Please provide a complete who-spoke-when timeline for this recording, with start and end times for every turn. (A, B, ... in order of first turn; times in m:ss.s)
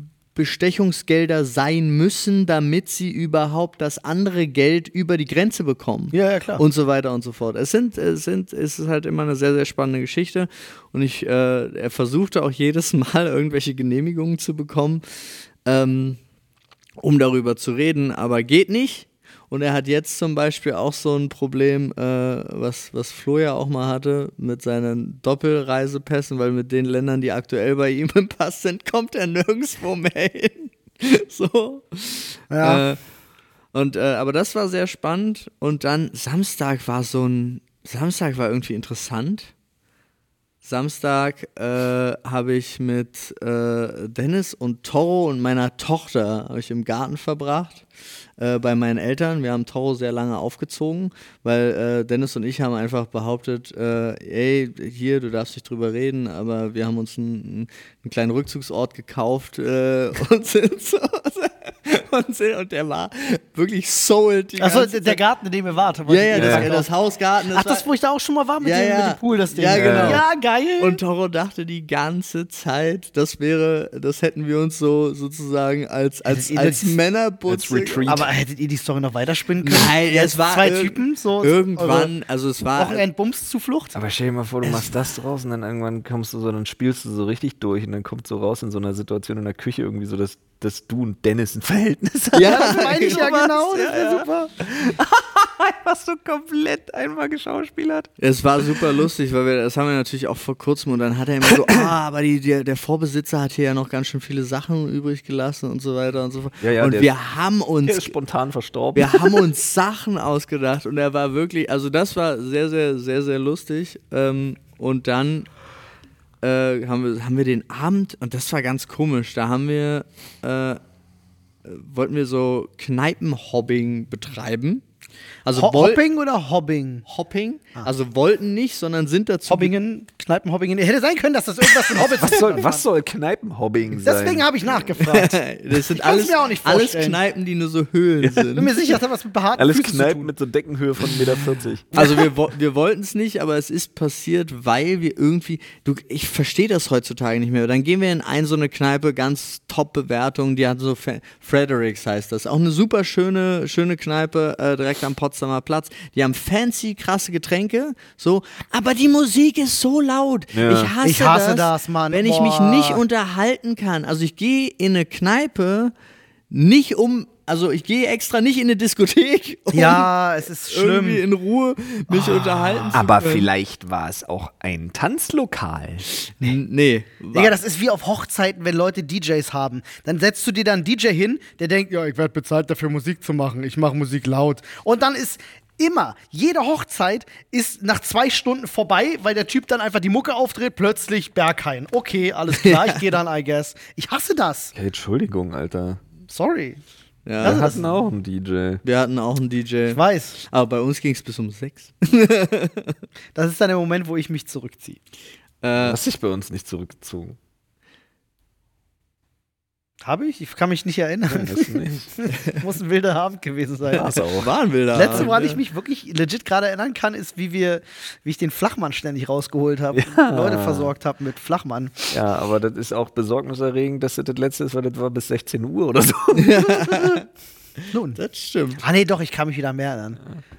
0:00.3-0:15.0 A
0:06.1-0:06.6 B
0:15.6-0:16.2 A
0:17.0-0:33.0 A
0:32.5-0:32.8 B
0:33.7-0:39.5 A
0:40.6-0:47.8 A
0:48.4-1:05.2 A
1:04.6-1:06.9 B
1:06.1-1:07.8 A
1:06.3-1:06.7 C
1:07.5-1:11.0 B
1:08.6-1:10.2 A
1:09.7-1:10.2 C
1:10.8-1:18.2 A
1:16.3-1:17.0 B
1:17.5-1:18.3 C
1:18.1-1:22.1 B
1:19.6-1:23.0 A
1:22.8-1:24.0 B
1:23.9-1:38.1 C
1:32.3-1:33.5 A
1:32.4-1:34.5 B
1:38.2-1:48.1 A
1:46.6-1:47.1 C
1:47.8-1:49.4 C
1:48.9-1:55.5 A
1:56.4-2:00.8 A
2:01.6-2:04.8 A
2:05.4-2:06.0 A
2:05.5-2:07.0 B
2:07.1-2:09.7 A
2:09.5-2:12.8 B
2:12.1-2:14.5 C
2:14.0-2:17.2 B
2:14.8-2:18.8 A
2:18.2-2:18.5 C
2:18.5-2:20.3 B
2:19.6-2:22.2 C
2:21.9-2:45.9 A
2:40.5-2:40.9 C
2:41.0-2:43.0 B
2:46.5-2:50.1 A
2:49.7-2:51.2 B
2:50.7-2:53.5 A
2:52.1-2:52.9 B
2:52.9-2:56.1 C
2:56.4-2:57.5 A
2:57.3-3:14.7 B
3:12.5-3:13.0 A
3:14.7-3:16.0 C
3:16.3-3:16.8 B
3:17.2-3:17.8 A
3:17.4-3:17.8 B
3:17.4-3:18.8 C
3:18.8-3:23.0 A
3:19.9-3:20.4 B
3:23.3-3:25.0 B
3:25.6-3:26.0 A
3:25.8-3:27.4 C
3:30.0-3:34.2 B
3:31.3-3:32.1 C
3:33.9-3:34.5 C
3:34.0-3:35.6 A
3:34.9-3:42.1 B
3:39.9-3:40.9 C
3:42.1-3:47.2 C
3:46.3-3:47.2 A
3:47.9-3:48.2 B
3:48.2-3:48.8 A
3:48.8-3:50.2 B